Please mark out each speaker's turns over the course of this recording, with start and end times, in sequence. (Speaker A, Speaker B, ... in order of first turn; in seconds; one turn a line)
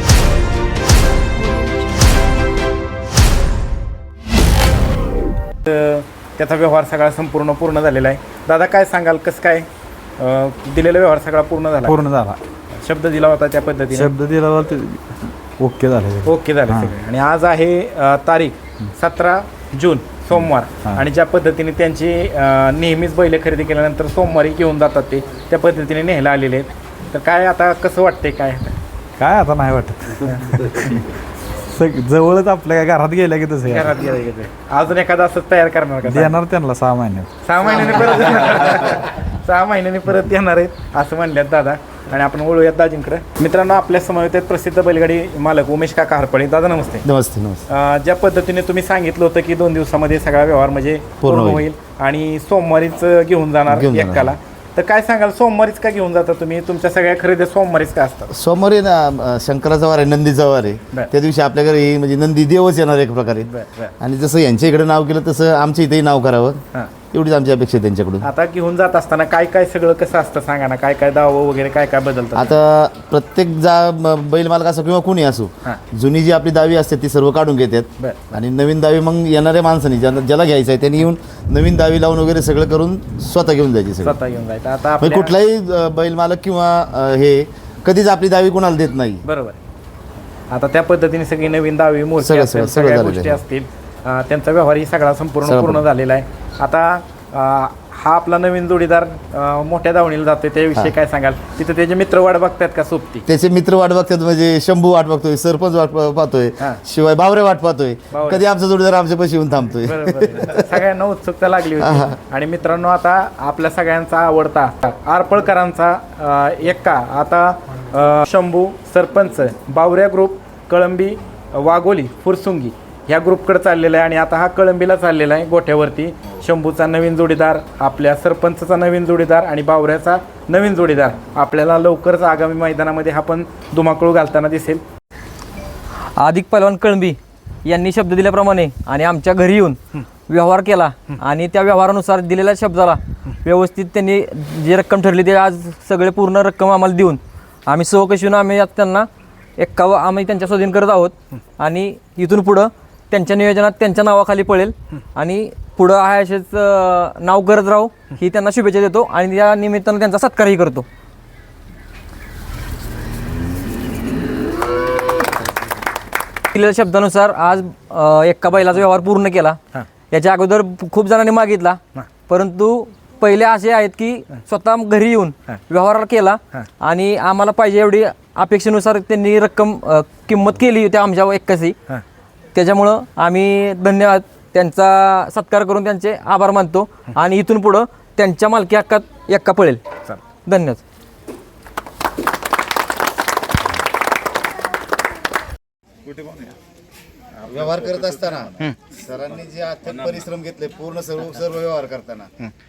Speaker A: 5.6-9.7
Speaker A: 10.2-12.0
Speaker B: 11.8-12.4
Speaker A: 12.7-14.1
Speaker B: 13.9-16.9
Speaker A: 16.2-28.8
Speaker B: 29.2-34.0
Speaker A: 33.6-36.4
Speaker B: 36.0-37.3
Speaker A: 37.4-47.0
Speaker C: 47.0-47.6
Speaker A: 47.7-58.3
Speaker C: 51.2-51.6
Speaker C: 53.7-54.4
Speaker C: 58.3-68.3
Speaker A: 63.5-63.9
Speaker A: 68.2-72.5
Speaker C: 72.3-84.2
Speaker A: 78.0-78.4
Speaker A: 84.0-85.3
Speaker C: 85.0-89.2
Speaker A: 89.2-89.6
Speaker A: 90.5-103.2
Speaker C: 92.2-93.4
Speaker C: 95.4-95.8
Speaker C: 103.2-110.8
Speaker A: 108.1-108.4
Speaker A: 109.8-134.8
Speaker C: 111.8-112.2
Speaker D: 136.2-160.8
Speaker D: 166.5-169.6
Speaker D: 170.1-181.8
Speaker D: 182.5-189.8
Speaker D: 190.4-190.8
Speaker B: 196.1-196.5
Speaker C: 197.4-202.3